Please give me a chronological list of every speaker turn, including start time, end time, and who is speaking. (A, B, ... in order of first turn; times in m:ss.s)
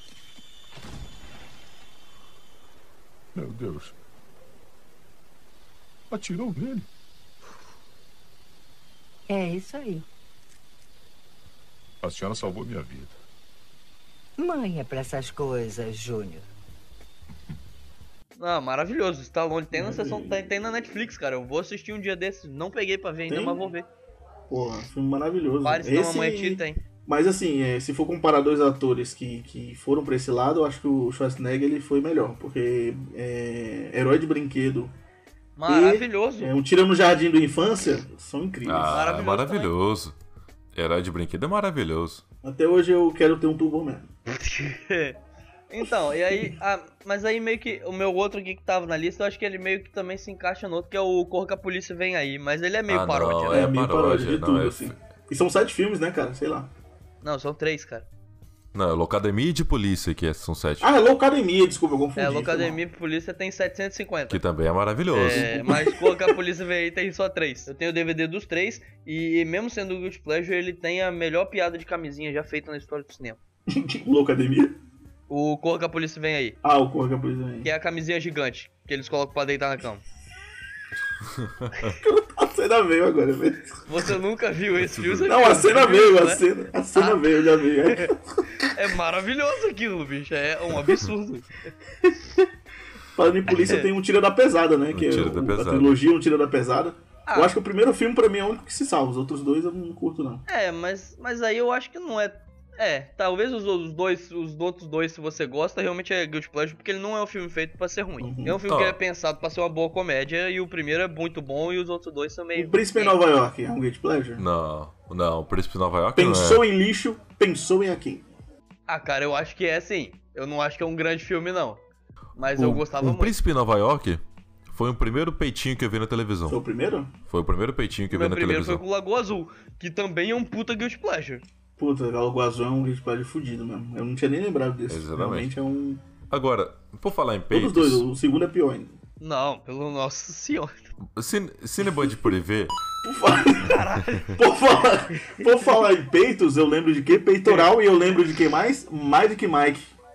0:03.4-0:03.9 A
0:06.1-0:06.9 A
0:09.3-0:10.1 B
0:12.0-0:13.1 A
0:14.4-0:16.5 B
0:18.4-0:23.9 C
0:19.7-0:20.5 D
0:23.3-0:23.6 D
0:24.5-0:34.9 D
0:25.6-0:26.8 C
0:35.6-0:36.5 C
0:35.6-0:39.0 D
0:38.6-0:40.1 E
0:38.9-0:39.7 C
0:40.8-0:42.2 E
0:42.4-0:44.1 D
0:44.3-0:45.2 C
0:45.7-0:53.7 C
0:52.9-0:55.0 E
0:53.5-0:56.7 D
0:57.2-0:58.1 C
0:58.7-1:00.9 E
1:00.8-1:02.8 D
1:02.2-1:04.4 C
1:04.3-1:05.5 E
1:05.1-1:13.4 C
1:05.2-1:06.4 D
1:13.7-1:14.8 D
1:15.3-1:16.6 C
1:16.6-1:17.7 D
1:17.6-1:20.0 C
1:21.4-1:21.9 E
1:22.0-1:23.8 D
1:23.9-1:26.4 C
1:24.8-1:25.3 E
1:25.3-1:28.4 D
1:27.0-1:28.1 C
1:28.6-1:31.5 C
1:33.1-1:40.4 D
1:33.5-1:33.9 C
1:34.9-1:36.0 E
1:37.3-1:37.6 C
1:40.5-1:53.2 C
1:48.2-1:48.6 D
1:48.7-1:49.0 E
1:52.6-1:54.4 D
1:54.4-1:56.6 E
1:56.1-1:58.2 D
1:58.9-2:01.8 C
2:02.4-2:03.4 C
2:02.7-2:06.6 E
2:06.5-2:07.1 D
2:07.3-2:08.8 E
2:08.1-2:11.4 C
2:11.8-2:16.0 D
2:14.9-2:15.5 E
2:16.3-2:18.0 E
2:17.5-2:19.0 D
2:19.2-2:20.9 C
2:21.1-2:22.8 E
2:23.0-2:23.8 D
2:23.6-2:24.4 C
2:24.3-2:29.9 D
2:25.1-2:25.4 C
2:27.4-2:27.7 C